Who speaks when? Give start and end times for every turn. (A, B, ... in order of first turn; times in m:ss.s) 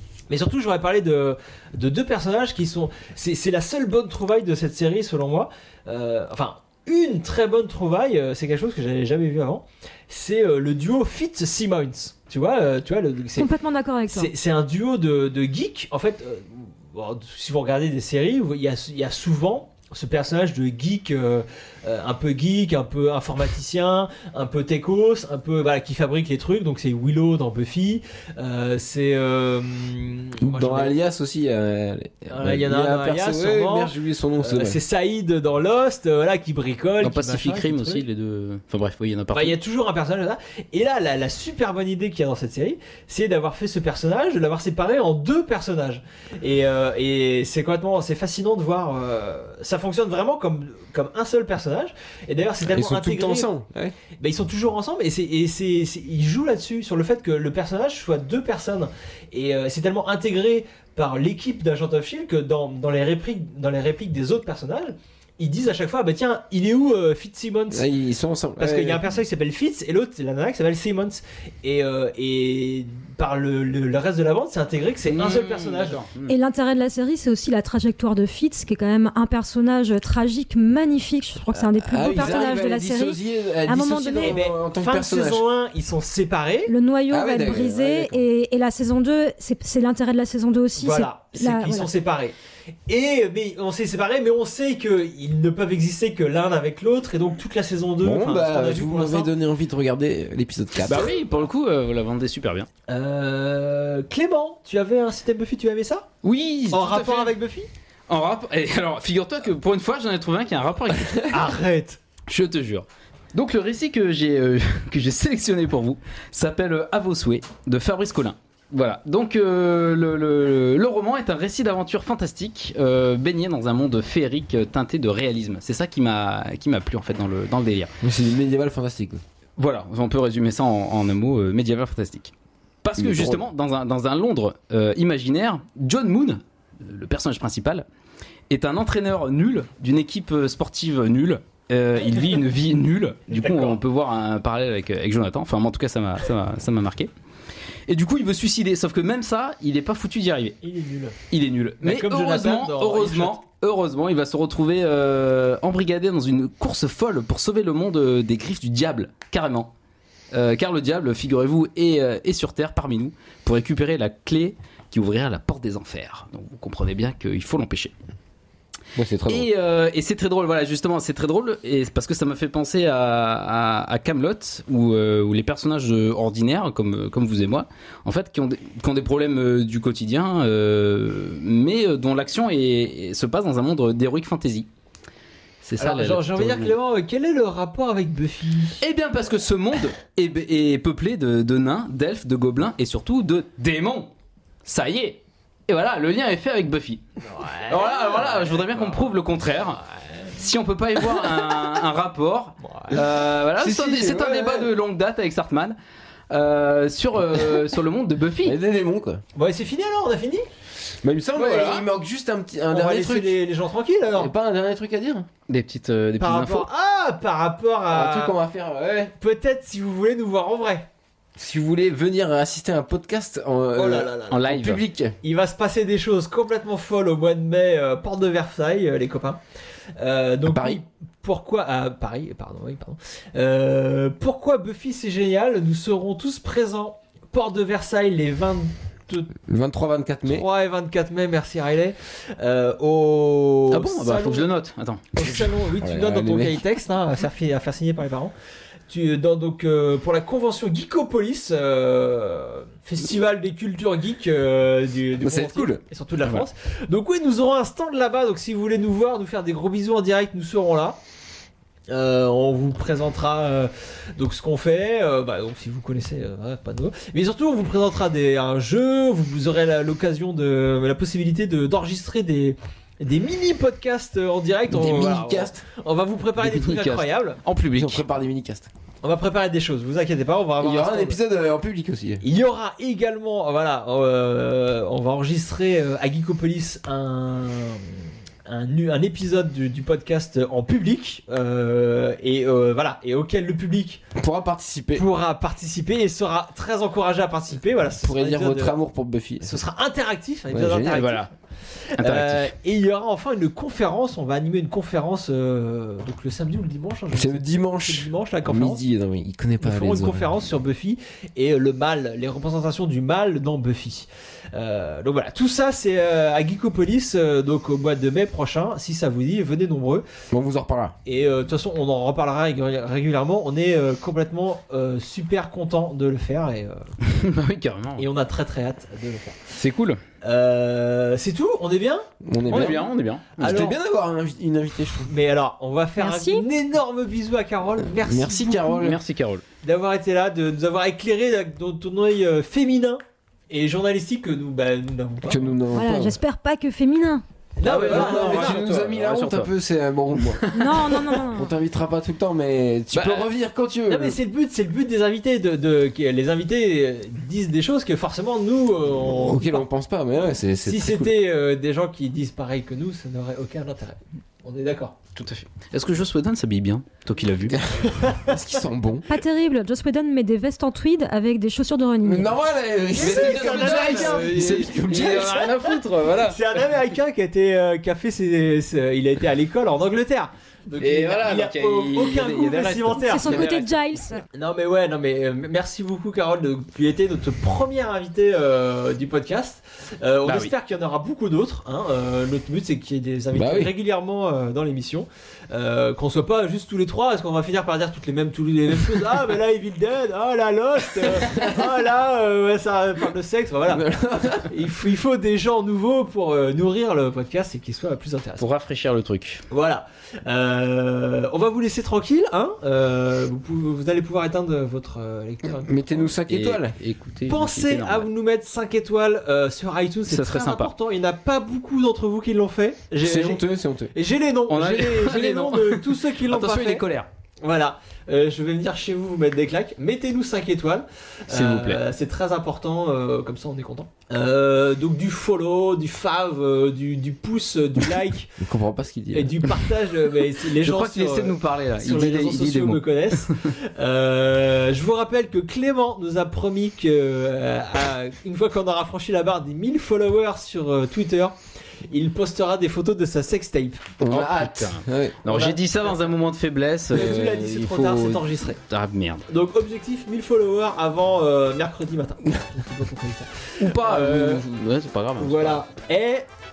0:00.3-0:13.5 A
0:13.4-0:14.3 B
0:14.1-0:30.9 A
0:30.4-0:34.8 C
0:32.3-0:38.0 A
0:37.0-0:39.6 D
0:39.3-0:53.5 A
0:52.6-0:54.0 C
0:54.2-1:07.8 A
1:07.7-1:09.2 C
1:08.6-1:16.0 A
1:15.0-1:16.4 D
1:16.3-1:24.4 B
1:21.6-1:25.5 C
1:24.2-1:26.7 A
1:26.7-1:31.9 B
1:27.1-1:28.2 C
1:30.8-1:32.4 A
1:32.9-1:39.3 A
1:38.0-1:41.1 C
1:40.9-1:42.7 D
1:42.9-1:46.1 A
1:46.2-1:47.4 D
1:46.7-1:47.7 A
1:48.1-1:51.4 D
1:51.3-1:52.0 A
1:52.3-2:07.9 D
2:08.0-2:09.2 C
2:09.6-2:12.3 D
2:12.8-2:17.8 D
2:13.0-2:13.4 C
2:18.5-2:27.1 D
2:23.3-2:23.8 A
2:27.9-2:30.6 D
2:30.6-2:31.2 A
2:31.3-2:39.7 D
2:31.8-2:33.4 A
2:40.3-2:47.9 D
2:49.0-2:49.5 C
2:49.3-3:04.7 D
3:05.6-3:06.8 D
3:05.8-3:08.8 A
3:08.8-3:14.1 D
3:14.6-3:17.0 D
3:17.3-3:19.2 A
3:17.7-3:19.8 D
3:20.4-3:25.8 D
3:22.7-3:22.9 A
3:22.9-3:24.7 C
3:26.3-3:28.6 D
3:28.4-3:29.2 C
3:29.4-3:30.5 A
3:31.0-3:33.4 C
3:31.4-3:31.9 A
3:32.7-3:34.3 A
3:34.1-3:35.3 C
3:35.5-3:36.7 D
3:36.2-3:38.4 A
3:37.9-3:39.1 C
3:39.2-3:40.9 A
3:41.4-3:45.2 C
3:43.8-3:44.5 A
3:44.3-3:44.8 D
3:45.2-3:49.4 A
3:50.0-3:59.3 A
3:50.4-3:50.8 C
3:59.5-4:00.4 C
4:00.3-4:04.5 A
4:03.7-4:05.1 D
4:05.1-4:08.3 A
4:05.2-4:06.6 C
4:08.9-4:21.0 A
4:15.2-4:15.8 C
4:21.9-4:37.4 A
4:34.7-4:35.6 C
4:36.4-4:38.0 D
4:37.7-4:38.7 C
4:39.0-4:41.2 A
4:40.6-4:42.2 C
4:42.2-4:54.1 A
4:54.2-4:55.1 C
4:55.0-4:58.7 A
4:58.0-4:59.6 C
4:59.4-5:01.2 A
5:00.5-5:01.1 C
5:00.9-5:01.3 D
5:01.9-5:08.8 A
5:02.0-5:02.5 D
5:07.1-5:10.3 C
5:09.6-5:20.1 A
5:20.3-5:21.0 C
5:21.1-5:26.8 A
5:27.0-5:28.1 D
5:28.0-5:29.4 A
5:29.6-5:30.0 D
5:30.2-5:32.1 A
5:32.2-5:32.9 C
5:32.5-5:33.6 D
5:33.4-5:33.8 A
5:33.4-5:35.1 C
5:35.1-5:38.8 A
5:36.0-5:36.5 B
5:38.0-5:39.0 C
5:38.8-5:39.4 D
5:39.6-5:45.6 A
5:45.2-5:46.2 C
5:45.7-5:47.2 B
5:47.6-5:48.6 A
5:47.6-5:49.5 D
5:47.7-5:50.5 C
5:50.2-5:50.6 D
5:50.5-5:51.5 B
5:51.3-5:54.2 C
5:52.9-5:53.3 A
5:53.9-5:59.6 A
5:59.0-6:01.1 C
6:00.6-6:05.0 A
6:05.2-6:07.6 D
6:07.7-6:09.1 C
6:09.1-6:12.3 B
6:12.0-6:15.5 C
6:13.0-6:23.5 A
6:13.0-6:16.4 D
6:20.8-6:23.7 D
6:23.1-6:24.2 B
6:24.3-6:43.8 A
6:30.2-6:30.5 D
6:33.3-6:33.7 C
6:41.2-6:41.5 C
6:43.7-6:44.5 C
6:44.5-6:48.4 A
6:48.4-6:49.4 D
6:49.5-6:56.1 A
6:55.6-6:56.8 C
6:56.3-6:58.1 D
6:57.3-7:03.4 A
7:00.1-7:00.7 D
7:03.0-7:03.9 C
7:04.0-7:06.8 A
7:04.5-7:07.1 D
7:07.4-7:18.4 A
7:11.3-7:11.8 D
7:18.4-7:19.5 C
7:19.1-7:31.4 A
7:20.6-7:23.4 D
7:31.9-7:33.9 A
7:34.0-7:35.3 C
7:34.1-7:39.3 D
7:35.3-7:35.9 A
7:36.9-7:38.6 A
7:39.3-7:44.4 A
7:43.6-7:45.6 D
7:45.2-7:46.3 A